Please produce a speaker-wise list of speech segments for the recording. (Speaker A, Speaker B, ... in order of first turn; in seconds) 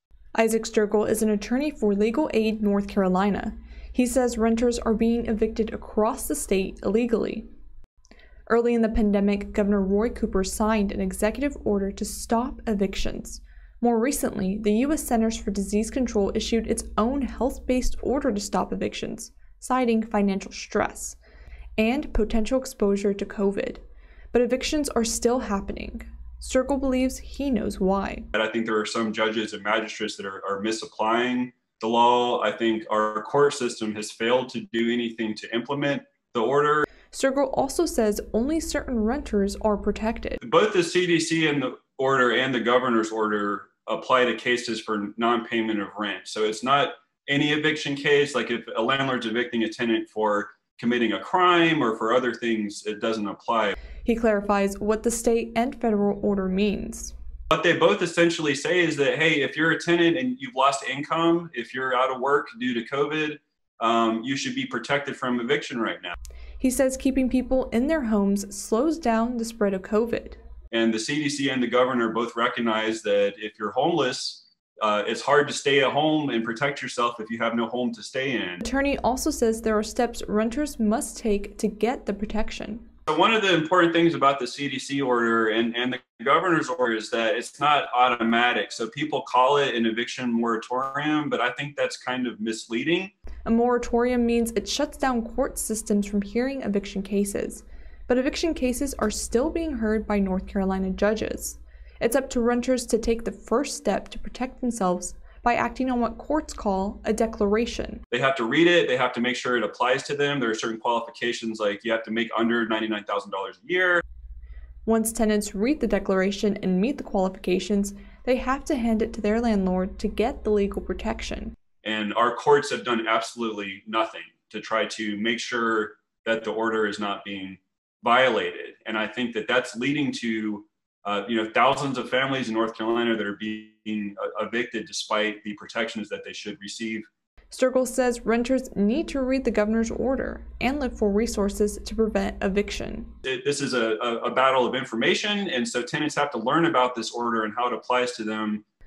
Speaker A: 0.4-7.5, 8.5-21.2, 21.8-28.3, 37.1-40.4, 54.0-57.1, 66.6-70.4, 78.6-82.9, 93.5-108.0, 114.9-121.5, 137.5-143.1
Speaker B: 28.3-36.9, 40.4-53.8, 57.5-66.2, 70.7-78.6, 83.1-93.1, 108.1-114.0, 121.8-137.1, 143.2-148.6